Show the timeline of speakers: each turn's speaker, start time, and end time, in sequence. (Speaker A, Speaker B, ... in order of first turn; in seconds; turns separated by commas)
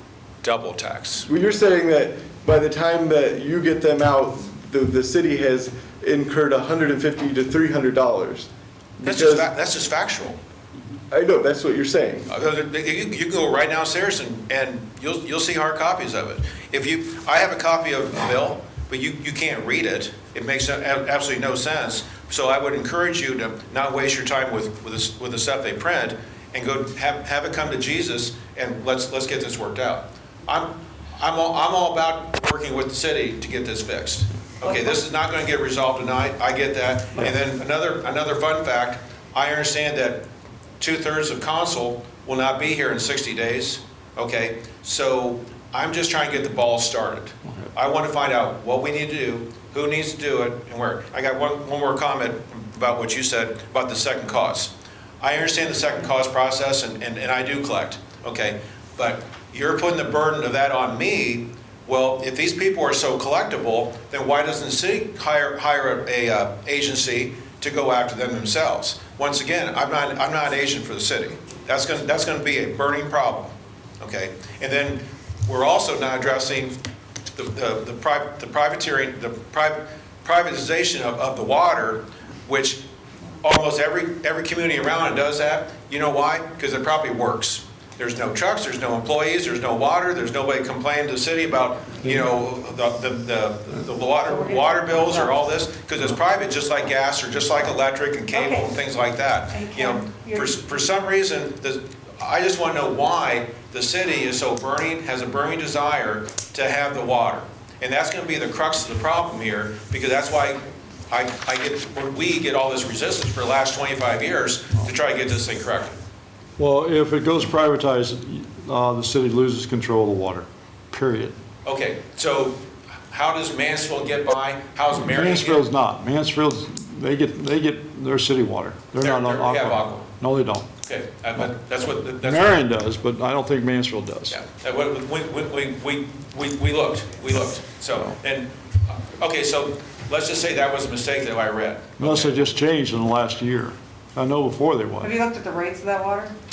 Speaker A: 0.4-1.3, Speaker B: 1.2-8.5, Speaker B: 9.0-9.5, Speaker A: 9.0-10.4, Speaker B: 11.1-12.3, Speaker A: 12.3-40.2, Speaker A: 40.8-76.8, Speaker A: 77.3-82.8, Speaker A: 83.4-115.9, Speaker C: 94.2-95.3, Speaker C: 98.3-98.7, Speaker C: 99.5-100.5, Speaker D: 116.6-121.3, Speaker A: 121.6-125.6, Speaker D: 125.0-130.7, Speaker A: 129.0-130.1, Speaker A: 130.8-132.5, Speaker D: 132.2-134.4, Speaker A: 134.3-142.4, Speaker D: 142.0-145.1, Speaker C: 145.0-146.3